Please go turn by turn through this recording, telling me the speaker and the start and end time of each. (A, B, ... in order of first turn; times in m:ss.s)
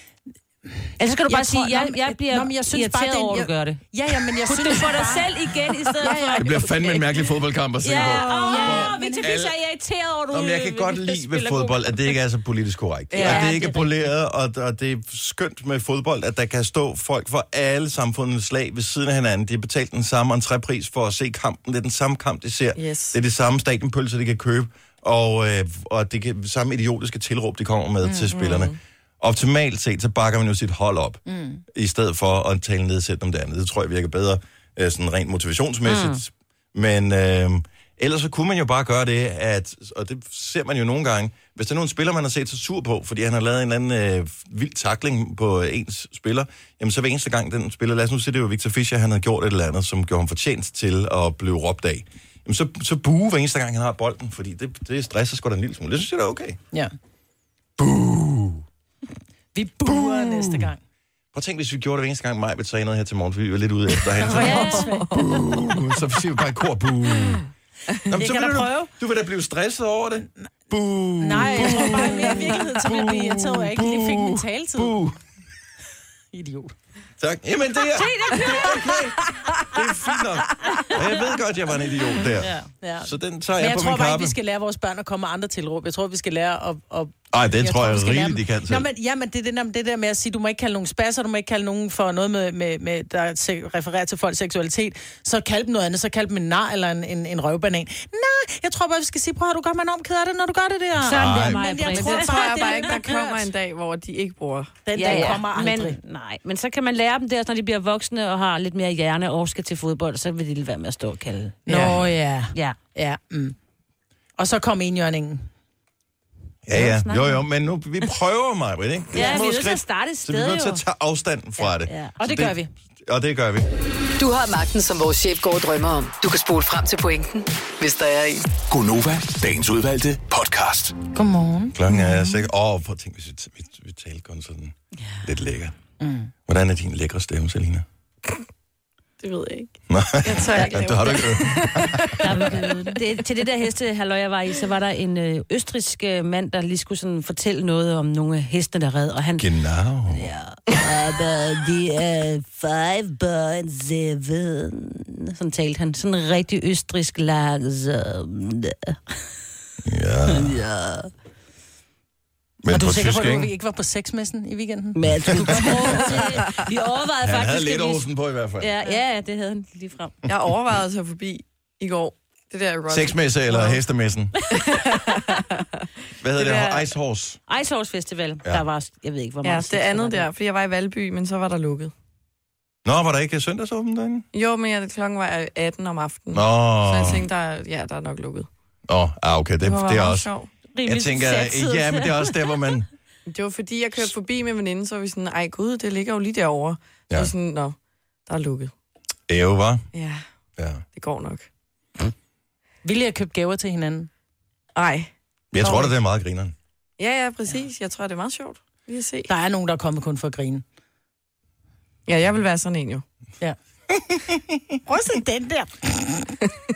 0:00.7-0:06.8 A
0:01.0-0:07.0 B
0:06.4-0:09.5 C
0:07.8-0:12.2 B
0:07.9-0:09.3 A
0:10.3-0:56.6 C
0:13.1-0:13.4 D
0:13.1-0:13.9 B
0:22.8-0:23.2 D
0:28.0-0:28.3 A
0:28.3-0:28.7 D
0:31.2-0:31.6 A
0:35.8-0:36.2 B
0:57.8-0:58.6 C
0:59.5-1:00.8 A
0:59.9-1:00.6 C
1:01.3-1:07.4 C
1:04.2-1:05.5 A
1:04.3-1:05.0 B
1:08.0-1:08.9 A
1:08.1-1:15.2 C
1:11.2-1:15.0 A
1:16.3-1:16.7 A
1:17.2-1:24.3 C
1:17.9-1:18.8 B
1:22.4-1:22.7 B
1:22.8-1:43.5 A
1:27.3-1:28.8 C
1:41.0-1:43.0 B
1:41.0-1:41.6 C
1:41.8-1:45.2 D
1:44.8-1:46.0 A
1:45.0-1:52.8 B
1:51.7-1:53.5 A
1:54.4-1:55.4 A
1:56.6-2:03.7 C
1:56.7-1:57.4 B
1:59.1-2:00.8 B
2:01.8-2:02.1 B
2:02.2-2:02.7 A
2:04.2-2:08.5 E
2:08.7-2:11.0 F
2:11.1-2:12.4 A
2:11.7-2:15.7 C
2:15.0-2:15.2 B
2:16.0-2:16.3 A
2:16.4-2:17.8 C
2:19.2-2:23.0 D
2:19.9-2:22.2 C
2:22.2-2:29.5 B
2:29.4-2:30.3 C
2:30.1-2:39.2 B
2:39.8-2:40.6 C
2:40.3-2:41.1 B
2:42.6-2:43.5 C
2:42.7-2:46.4 A
2:44.9-2:48.0 B
2:45.2-2:45.5 C
2:47.2-2:48.7 C
2:48.6-2:50.2 B
2:50.2-2:53.8 D
2:52.9-2:54.3 C
2:54.5-2:55.8 D
2:56.2-2:57.4 C
2:56.3-2:56.9 D
2:57.5-3:00.3 B
2:59.4-3:01.9 D
3:02.8-3:04.2 C
3:04.3-3:08.5 D
3:06.3-3:07.3 C
3:08.9-3:10.3 C
3:09.6-3:10.5 D
3:10.7-3:12.7 B
3:10.8-3:12.9 C
3:13.3-3:17.8 D
3:18.3-3:18.7 D
3:19.3-3:19.8 C
3:19.9-3:20.2 D
3:20.6-3:20.8 C
3:20.9-3:21.5 D
3:22.8-3:24.1 A
3:24.7-3:25.1 D
3:25.5-3:26.5 C
3:25.6-3:25.9 A
3:27.0-3:29.3 D
3:29.3-3:30.6 A
3:32.1-3:33.0 D
3:33.9-3:34.8 C
3:34.8-3:36.3 A